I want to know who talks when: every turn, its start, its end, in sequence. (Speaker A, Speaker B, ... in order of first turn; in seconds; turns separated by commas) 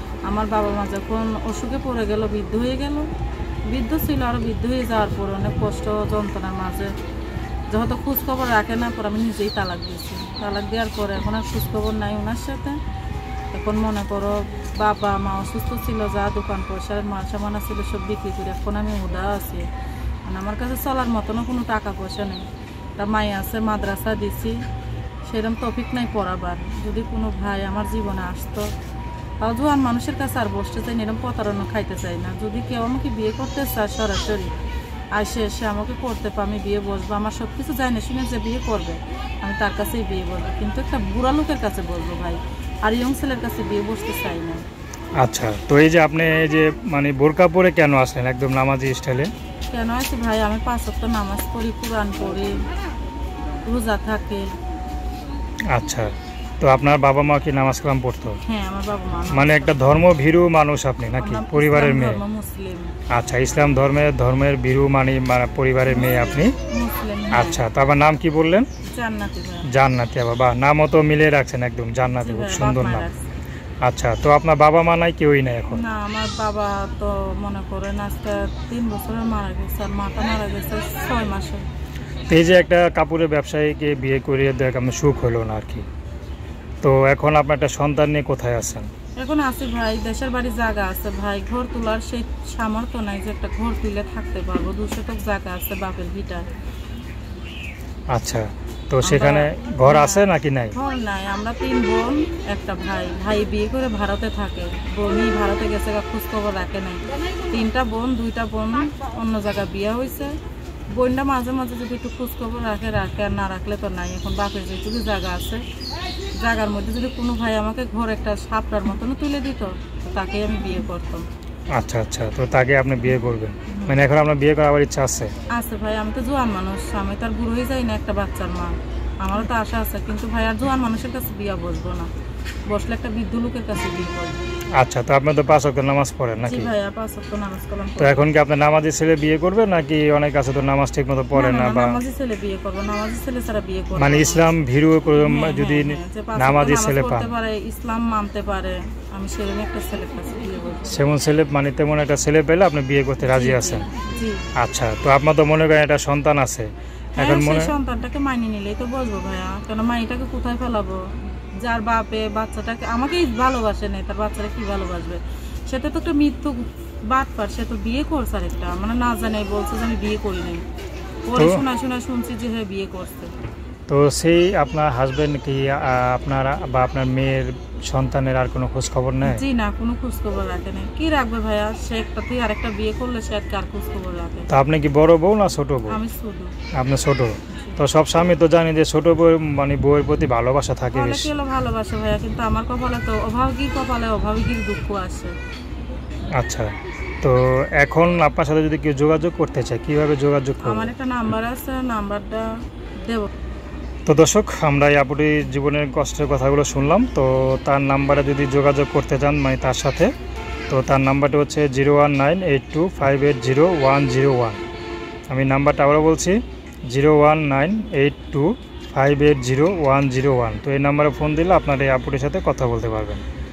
Speaker A: 0.2-3.1, Speaker A: 3.7-6.9, Speaker A: 7.7-12.8, Speaker A: 13.5-19.7, Speaker A: 20.2-22.5, Speaker A: 23.0-24.6, Speaker A: 25.3-28.7, Speaker A: 29.4-34.5, Speaker A: 35.1-44.6, Speaker B: 45.2-49.3, Speaker A: 49.7-52.5, Speaker A: 53.6-54.5, Speaker B: 55.7-58.4, Speaker A: 58.5-59.8, Speaker B: 59.3-62.2, Speaker A: 61.2-62.9, Speaker B: 63.1-66.5, Speaker A: 65.9-67.6, Speaker B: 67.3-68.7, Speaker A: 68.8-69.7, Speaker B: 69.7-73.0, Speaker A: 72.1-73.2, Speaker B: 73.8-75.8, Speaker A: 75.7-81.6, Speaker B: 82.3-85.8, Speaker B: 86.8-88.9, Speaker A: 89.2-96.5, Speaker B: 98.1-100.8, Speaker A: 99.0-110.3, Speaker A: 110.9-115.6, Speaker A: 116.4-121.2, Speaker B: 121.7-125.3, Speaker A: 123.7-124.0, Speaker A: 125.5-132.1, Speaker A: 132.7-134.4, Speaker B: 134.8-136.7, Speaker A: 136.4-138.3, Speaker B: 138.0-142.0, Speaker A: 141.3-144.5, Speaker B: 143.9-147.3, Speaker A: 145.2-151.0, Speaker B: 150.9-153.9, Speaker A: 153.2-154.5, Speaker B: 154.6-157.7, Speaker A: 157.2-161.0, Speaker A: 161.6-170.6, Speaker A: 171.3-173.3, Speaker B: 171.3-171.6, Speaker B: 173.9-179.4, Speaker A: 179.2-184.5, Speaker B: 184.5-186.0, Speaker A: 185.9-186.5, Speaker B: 186.7-191.3, Speaker A: 190.9-195.3, Speaker B: 196.4-196.7, Speaker B: 197.2-200.9, Speaker A: 200.6-202.5, Speaker A: 203.0-203.3, Speaker B: 204.1-210.1, Speaker B: 210.7-214.6, Speaker B: 215.3-216.4, Speaker B: 216.9-223.2